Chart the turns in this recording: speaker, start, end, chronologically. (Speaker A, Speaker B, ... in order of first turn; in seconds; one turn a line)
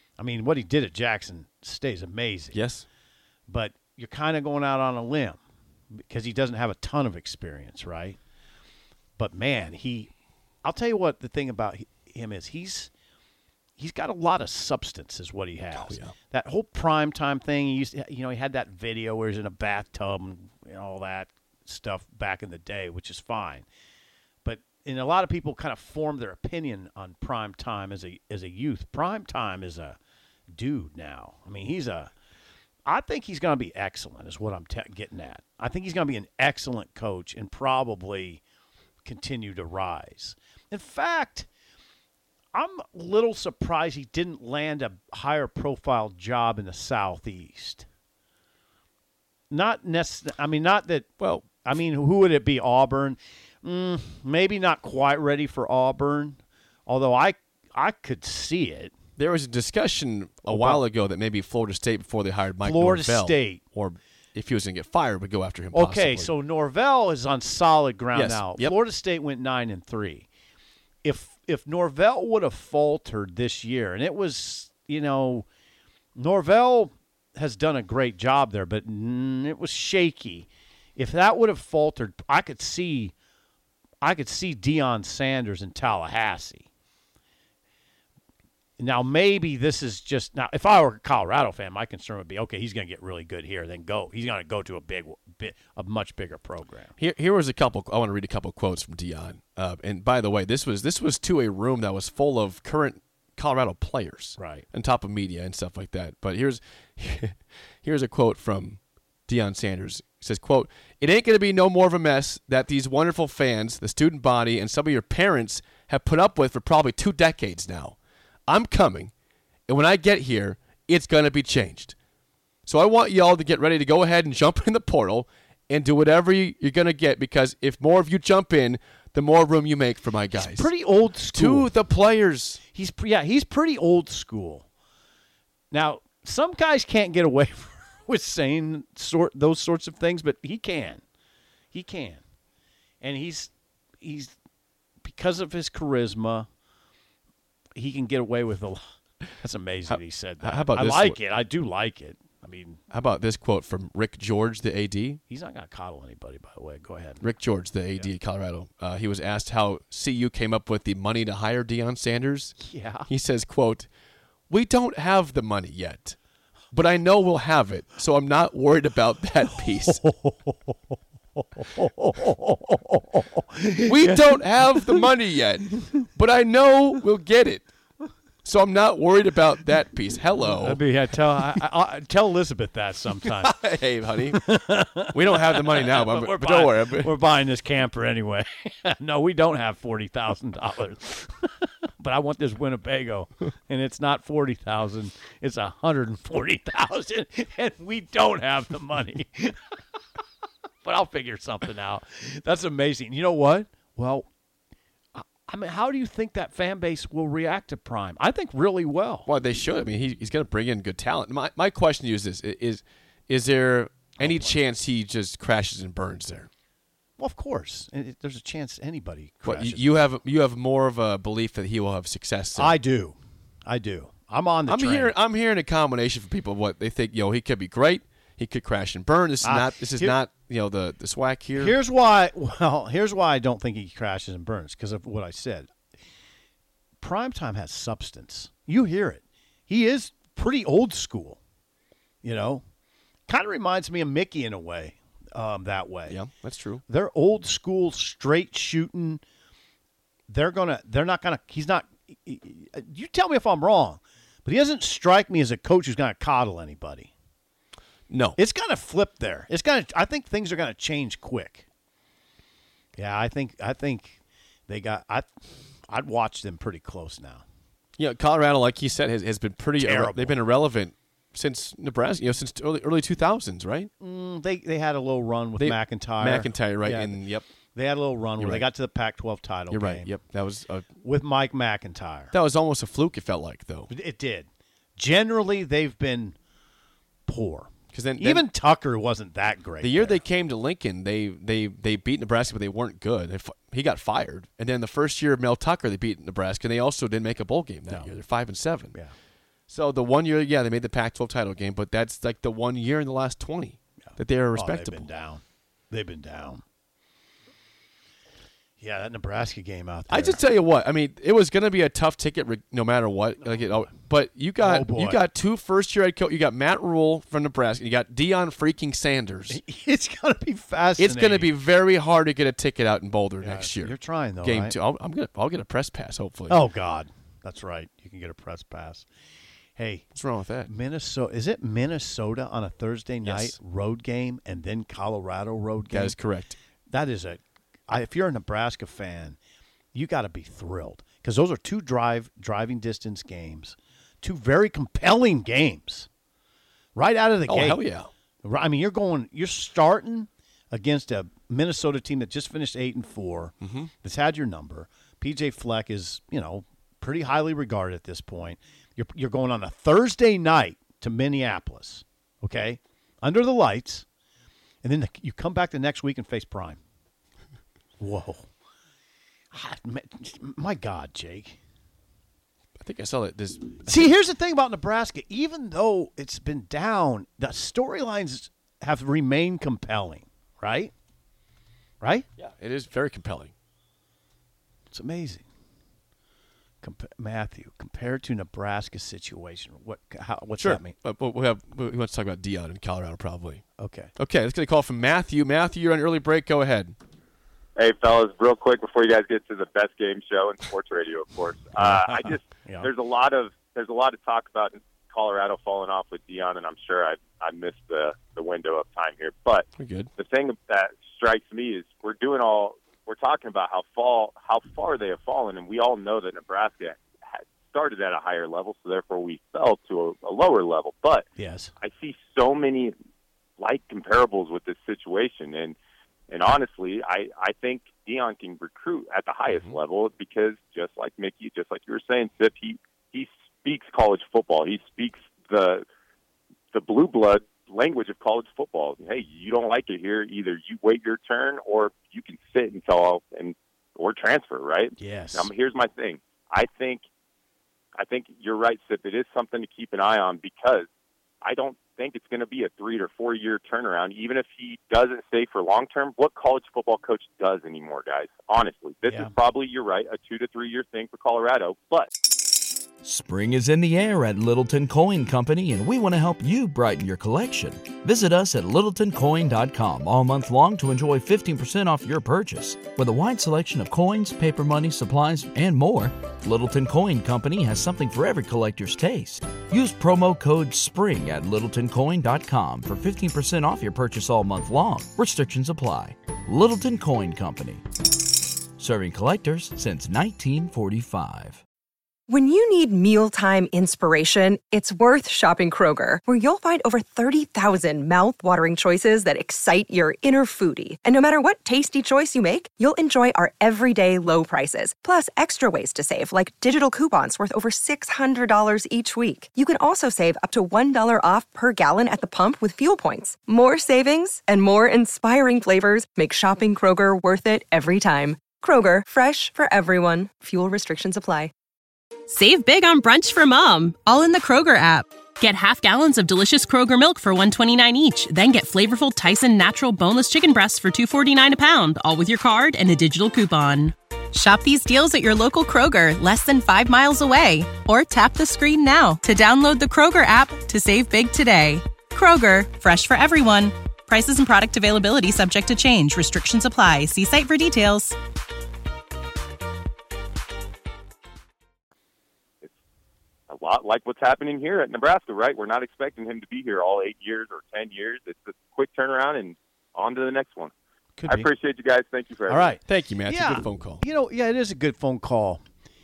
Speaker A: 0.2-2.6
Speaker B: 2.5-2.9
Speaker A: 3.5-5.4
Speaker A: 5.9-8.2
Speaker A: 9.2-10.1
Speaker A: 10.6-12.9
Speaker A: 13.8-23.7
Speaker B: 15.8-16.1
Speaker A: 24.4-30.0
Speaker A: 30.5-32.1
Speaker A: 32.9-38.4
Speaker A: 39.0-41.5
Speaker A: 42.5-47.9
Speaker A: 49.5-51.1
Speaker B: 51.2-51.5
Speaker A: 51.6-59.0
Speaker B: 59.2-66.3
Speaker A: 60.5-60.8
Speaker A: 62.6-63.6
Speaker A: 65.7-70.3
Speaker B: 68.1-68.7
Speaker A: 71.0-75.5
Speaker A: 76.2-83.1
Speaker A: 84.0-86.7
Speaker A: 88.8-96.9
Speaker B: 97.0-118.0
Speaker A: 104.4-104.6
Speaker B: 118.5-119.1
Speaker B: 119.7-121.9
Speaker B: 122.7-130.7
Speaker A: 130.4-131.7
Speaker B: 131.3-132.6
Speaker A: 132.7-134.7
Speaker A: 135.7-141.0
Speaker A: 141.7-142.2
Speaker A: 143.0-144.3
Speaker A: 145.0-146.5
Speaker A: 147.8-148.8
Speaker A: 149.4-152.8
Speaker B: 149.9-151.2
Speaker B: 152.9-155.2
Speaker A: 155.3-157.2
Speaker B: 157.2-163.9
Speaker A: 162.6-163.1
Speaker B: 164.5-166.2
Speaker B: 166.7-170.1
Speaker A: 169.9-170.8
Speaker A: 171.4-175.1
Speaker B: 173.8-177.7
Speaker B: 178.4-180.8
Speaker A: 180.5-183.6
Speaker B: 183.3-187.1
Speaker A: 184.3-199.8
Speaker A: 200.8-204.3
Speaker A: 205.1-209.3
Speaker B: 209.3-216.5
Speaker A: 214.2-214.6
Speaker A: 217.2-220.0
Speaker B: 219.4-222.8
Speaker A: 222.6-225.1
Speaker B: 224.7-231.8
Speaker A: 229.4-230.1
Speaker A: 231.6-235.7
Speaker A: 237.0-241.4
Speaker A: 242.2-242.6
Speaker A: 243.3-246.2
Speaker B: 246.1-246.8
Speaker A: 246.9-249.2
Speaker A: 250.3-257.1
Speaker B: 258.1-258.4
Speaker A: 258.4-261.7
Speaker A: 262.9-265.3
Speaker A: 265.9-267.4
Speaker B: 268.0-273.9
Speaker A: 269.8-270.4
Speaker A: 274.0-277.2
Speaker B: 275.6-277.4
Speaker A: 277.8-280.1
Speaker B: 278.4-278.7
Speaker B: 279.7-280.9
Speaker A: 281.0-282.3
Speaker B: 282.3-283.9
Speaker A: 283.9-286.4
Speaker A: 287.3-290.2
Speaker B: 287.9-288.5
Speaker B: 289.8-298.9
Speaker B: 299.7-305.1
Speaker A: 304.1-306.6
Speaker A: 308.8-310.4
Speaker B: 310.1-319.6
Speaker A: 313.4-313.9
Speaker A: 314.6-315.2
Speaker A: 319.5-321.5
Speaker B: 321.0-326.6
Speaker A: 323.4-324.8
Speaker A: 326.5-329.1
Speaker A: 329.8-330.1
Speaker B: 330.1-330.7
Speaker A: 330.6-336.1
Speaker B: 333.2-333.6
Speaker B: 335.9-336.6
Speaker A: 336.9-339.4
Speaker A: 339.9-346.1
Speaker A: 346.9-347.8
Speaker B: 347.5-348.1
Speaker A: 348.4-364.0
Speaker B: 353.6-353.9
Speaker A: 364.8-366.8
Speaker A: 368.0-368.5
Speaker A: 369.5-371.6
Speaker B: 372.8-374.1
Speaker A: 373.9-380.9
Speaker A: 382.0-382.3
Speaker B: 382.4-383.5
Speaker A: 384.9-385.4
Speaker A: 386.8-390.9
Speaker B: 390.6-393.6
Speaker A: 393.8-394.1
Speaker B: 394.2-396.9
Speaker C: 397.8-421.3
Speaker A: 401.8-402.9
Speaker B: 409.8-410.1
Speaker A: 421.4-421.7
Speaker C: 421.8-422.9
Speaker C: 423.6-425.8
Speaker C: 426.3-435.9
Speaker B: 429.5-429.8
Speaker C: 436.7-447.0
Speaker A: 445.0-445.5
Speaker C: 448.0-450.9
Speaker C: 451.4-462.1
Speaker A: 459.1-459.3
Speaker D: 463.0-487.9
Speaker D: 488.8-491.6
Speaker E: 492.3-521.5
Speaker F: 522.3-548.1
Speaker C: 553.5-560.7
Speaker A: 561.2-561.5
Speaker C: 561.3-562.8
Speaker A: 562.5-565.6
Speaker B: 562.9-564.0